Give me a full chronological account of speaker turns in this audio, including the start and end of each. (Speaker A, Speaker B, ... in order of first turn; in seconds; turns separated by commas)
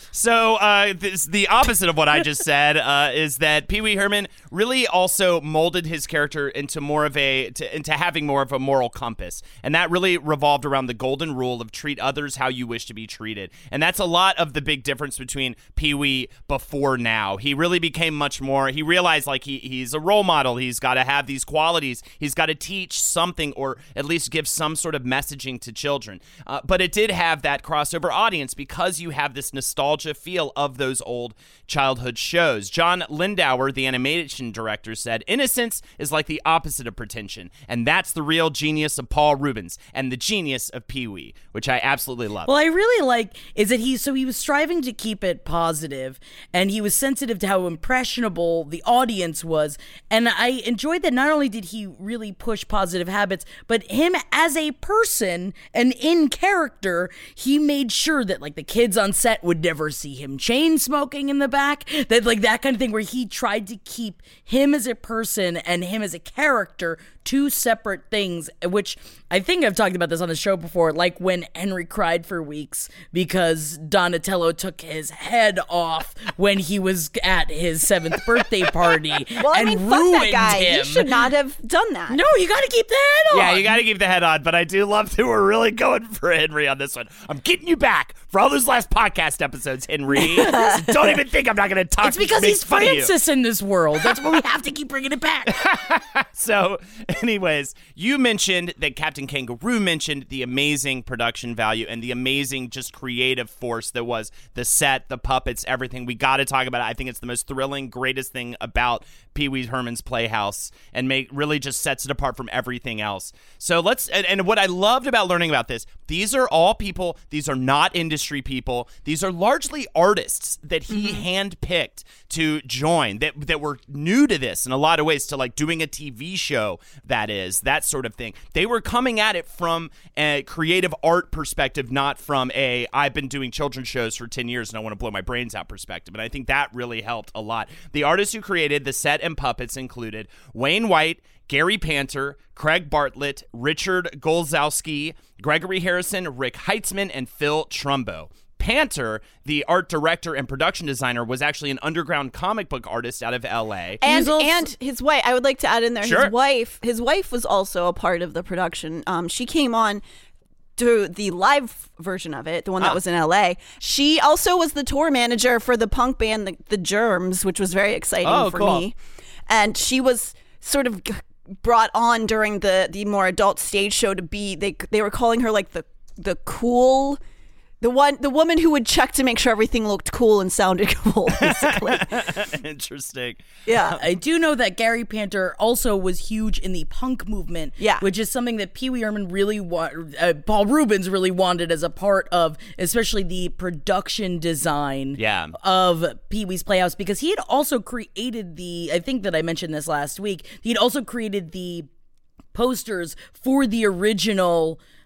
Speaker A: 0.1-42.5, Speaker B: 42.4-81.3, Speaker C: 79.4-82.2, Speaker B: 82.1-83.8, Speaker A: 83.3-93.1, Speaker B: 90.2-90.9, Speaker C: 90.3-90.8, Speaker B: 92.0-95.6, Speaker A: 95.5-154.0, Speaker C: 121.0-121.2, Speaker B: 154.0-154.7, Speaker C: 154.0-160.0, Speaker A: 156.0-156.3, Speaker C: 160.8-169.0, Speaker A: 168.2-168.8, Speaker C: 169.5-177.2, Speaker C: 177.8-182.2, Speaker A: 181.4-183.6, Speaker C: 183.7-184.0, Speaker B: 183.9-201.9, Speaker C: 187.8-188.0, Speaker A: 195.2-195.6, Speaker B: 202.5-204.8